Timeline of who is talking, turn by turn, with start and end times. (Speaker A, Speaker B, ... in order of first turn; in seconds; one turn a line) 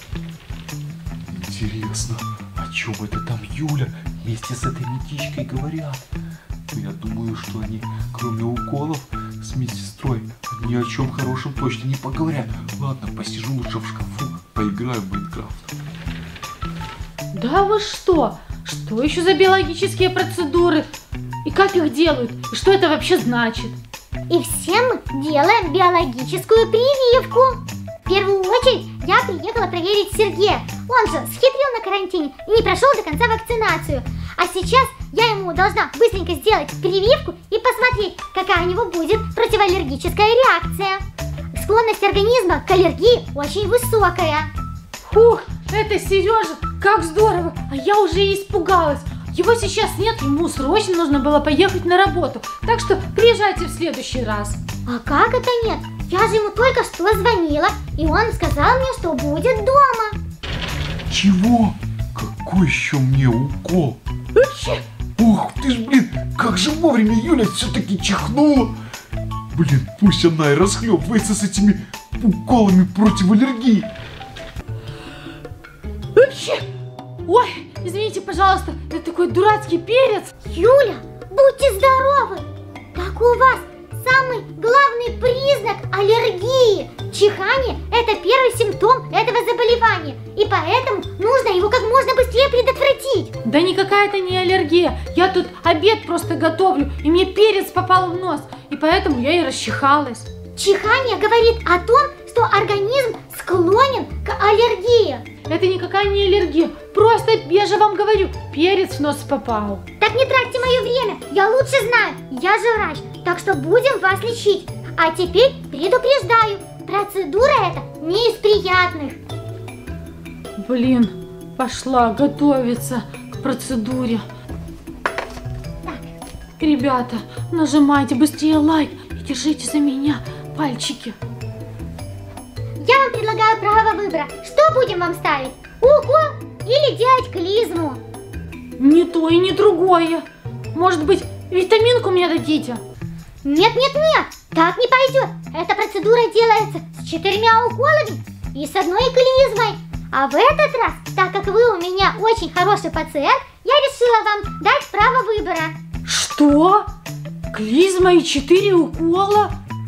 Speaker A: 1.3-6.1
Speaker A: 6.7-15.7
Speaker B: 17.3-20.9
Speaker B: 21.4-23.8
Speaker C: 24.3-44.5
Speaker B: 45.0-54.6
Speaker C: 54.9-60.2
Speaker A: 61.1-64.0
Speaker B: 64.4-64.8
Speaker A: 65.2-68.8
Speaker A: 69.5-73.9
Speaker B: 76.2-76.7
Speaker B: 77.3-80.3
Speaker C: 80.5-93.3
Speaker B: 93.4-100.3
Speaker C: 100.6-105.3
Speaker B: 105.5-109.8
Speaker C: 110.0-119.2
Speaker B: 120.6-124.2
Speaker B: 126.6-131.2
Speaker C: 132.8-138.0
Speaker B: 138.8-142.8
Speaker C: 143.4-155.8
Speaker B: 156.1-156.9
Speaker B: 157.5-159.6